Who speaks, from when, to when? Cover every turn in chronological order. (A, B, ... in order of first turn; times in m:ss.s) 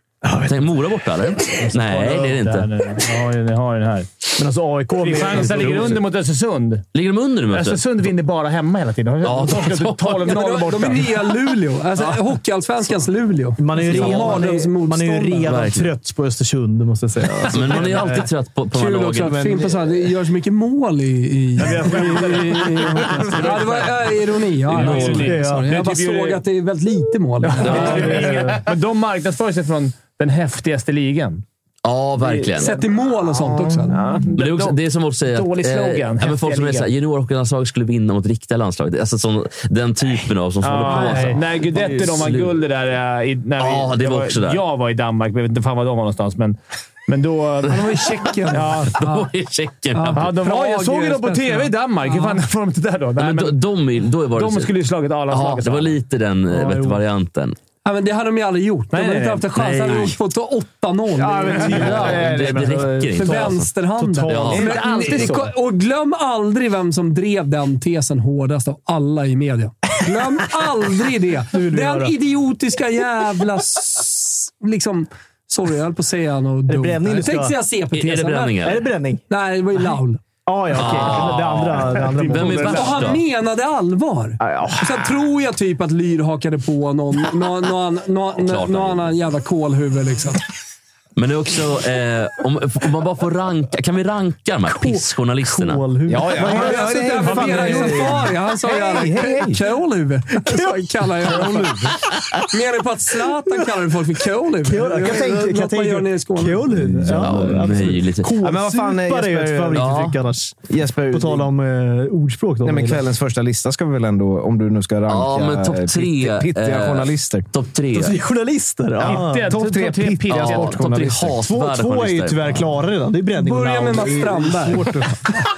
0:00.2-0:00.7 A
0:00.4-0:02.7 B
0:01.6-0:04.1 C
0:04.4-0:06.0 A
0:04.9-0:06.8 C
0:06.9-0:07.8 B
0:07.5-0:11.3 C
0:09.2-0:10.4 B
0:10.2-0:15.5 D
0:13.6-0:18.3 A
0:13.9-0:14.4 B
0:15.5-0:15.9 B
0:17.4-0:19.4 B
0:18.7-0:28.4 D
0:19.2-0:20.1 A
0:21.6-0:23.9 C
0:24.7-0:25.4 B
0:24.7-0:26.4 C
0:25.1-0:25.7 A
0:27.4-0:31.4 C
0:27.7-0:28.3 B
0:31.8-0:32.8 B
0:32.2-0:32.8 C
0:32.6-0:34.0 D
0:33.6-0:34.8 C
0:34.4-0:42.6 B
0:35.3-0:36.9 C
0:40.6-0:49.0 C
0:40.9-0:41.3 D
0:43.6-0:44.6 B
0:47.7-0:49.3 D
0:48.5-0:50.3 B
0:49.9-0:52.4 D
0:50.2-0:53.6 C
0:53.2-0:54.8 B
0:54.3-0:56.0 C
0:55.3-0:57.6 B
0:56.5-0:57.0 A
0:57.8-1:02.2 D
0:58.9-1:00.1 C
1:01.2-1:05.4 A
1:01.3-1:02.8 C
1:01.7-1:03.7 B
1:03.2-1:18.8 D
1:04.3-1:04.8 B
1:04.6-1:05.5 C
1:11.5-1:12.2 A
1:16.7-1:17.6 A
1:17.9-1:18.9 B
1:18.6-1:19.2 A
1:19.3-1:20.2 D
1:20.5-1:22.8 A
1:20.7-1:23.2 B
1:21.1-1:21.3 C
1:21.9-1:23.2 C
1:22.7-1:30.4 D
1:24.4-1:25.2 A
1:28.4-1:29.1 B
1:31.2-1:35.8 B
1:34.7-1:38.3 A
1:36.1-1:39.6 E
1:36.4-1:38.0 C
1:36.4-1:47.0 D
1:38.9-1:39.3 A
1:40.4-1:42.5 A
1:44.6-1:53.0 A
1:46.7-1:50.0 E
1:47.1-1:48.3 B
1:49.7-1:50.2 B
1:50.7-1:51.5 E
1:52.6-1:57.5 E
1:55.1-1:58.2 B
1:57.9-1:59.5 A
1:59.0-2:01.2 C
1:59.0-2:01.3 E
2:00.3-2:02.6 B
2:01.4-2:05.3 A
2:03.4-2:05.0 D